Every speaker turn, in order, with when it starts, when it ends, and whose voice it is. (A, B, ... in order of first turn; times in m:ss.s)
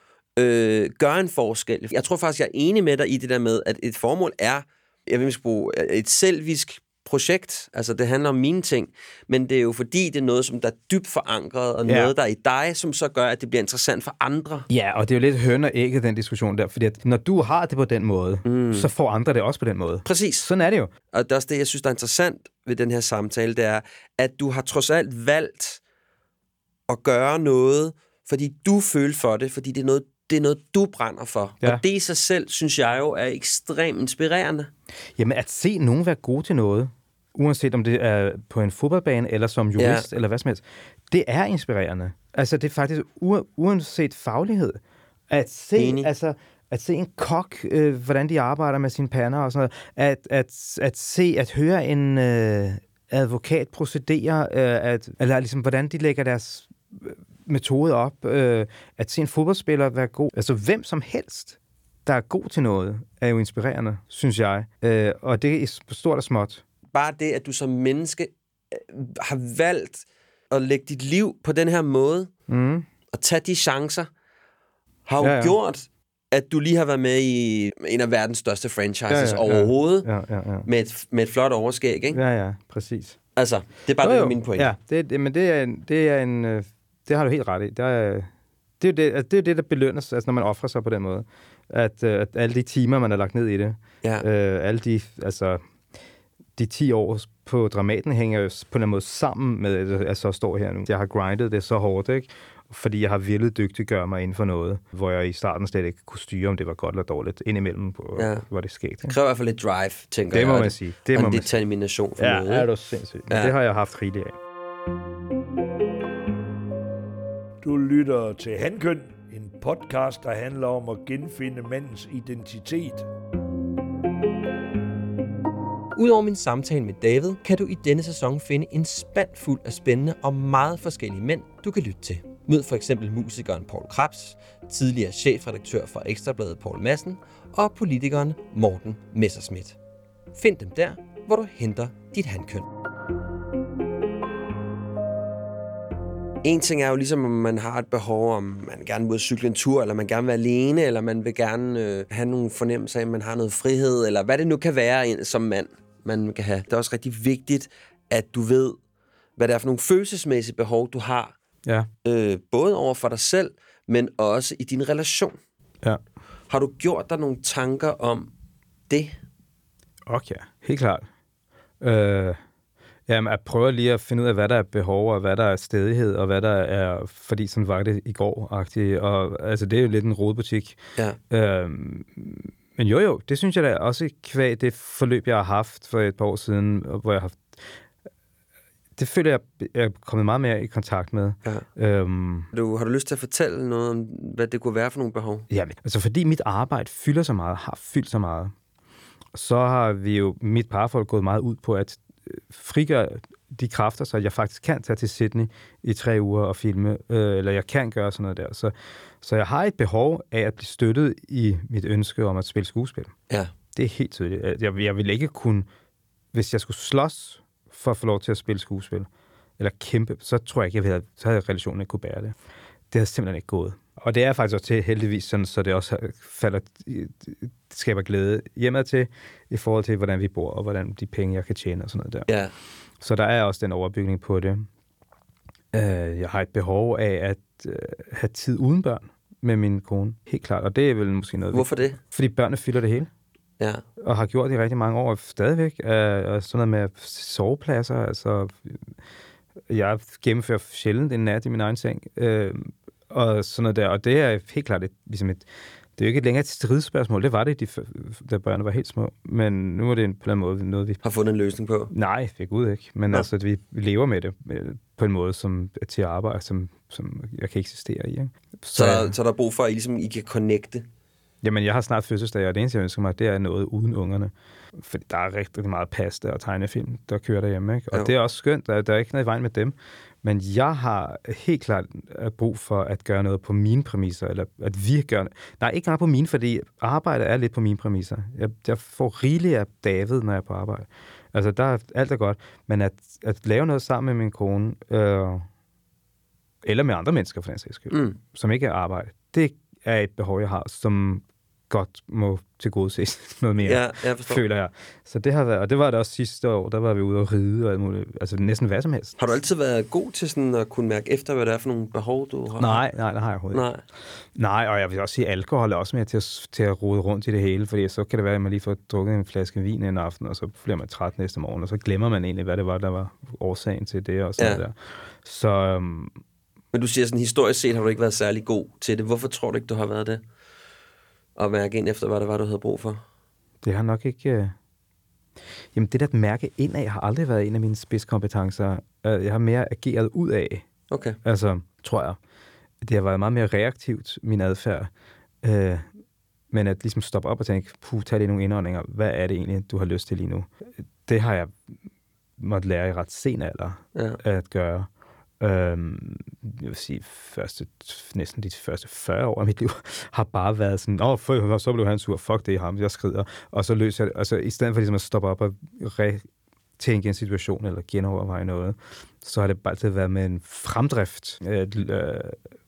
0:00.4-0:14.7 A
0:11.8-0:12.1 B
0:14.7-0:20.9 B
0:18.4-0:18.9 A
0:20.0-0:20.5 A
0:21.1-0:25.8 A
0:26.9-0:34.7 A
0:35.2-1:06.6 B
0:39.8-0:40.1 A
0:45.8-0:46.1 A
1:06.9-1:12.3 A
1:12.5-1:12.8 B
1:13.1-1:14.1 A
1:15.0-1:20.1 A
1:15.2-1:15.6 B
1:19.1-1:20.7 B
1:20.6-1:22.2 A
1:22.1-1:23.2 B
1:23.4-1:24.7 A
1:24.0-1:35.6 B
1:36.6-1:49.2 B
1:48.2-1:48.4 A
1:49.0-1:52.7 A
1:50.3-1:51.5 B
1:52.2-1:54.4 B
1:57.6-2:03.1 C
2:06.0-2:19.8 A
2:20.3-2:22.6 A
2:26.4-2:38.8 A
2:39.4-2:41.3 A
2:42.0-2:45.4 A
2:46.5-2:48.3 A
2:48.9-2:49.2 A
2:50.1-2:51.1 B
2:51.8-2:52.4 B
2:53.1-3:00.8 B
3:01.3-3:07.6 B
3:09.0-3:12.5 B
3:12.5-3:15.5 A
3:15.5-3:18.5 B
3:19.3-3:33.1 B
3:33.7-3:35.7 B
3:36.3-3:42.3 B
3:42.9-3:52.3 B
3:52.3-3:52.5 A
3:53.0-3:54.7 B
3:55.7-4:03.1 B
4:01.5-4:02.0 A
4:04.0-4:08.9 B
4:09.7-4:21.0 B
4:21.0-4:21.9 A
4:21.9-4:29.1 B
4:28.7-4:30.8 A
4:31.4-4:55.5 B
4:56.6-5:09.2 B
4:57.9-4:58.2 A
5:03.6-5:04.4 A
5:09.2-5:12.8 A
5:12.6-5:13.6 B
5:13.5-5:13.8 A
5:14.3-5:26.2 B
5:26.7-5:30.2 A
5:31.4-5:33.0 A
5:33.6-5:34.5 B
5:35.7-5:40.6 B
5:40.9-5:41.2 A
5:41.2-5:42.2 B
5:42.8-5:44.9 B
5:45.4-5:45.9 B
5:46.5-5:50.5 B
5:51.0-5:51.7 B
5:52.4-5:54.9 B
5:53.9-5:54.2 A
5:55.4-6:06.2 B
6:06.8-6:12.4 B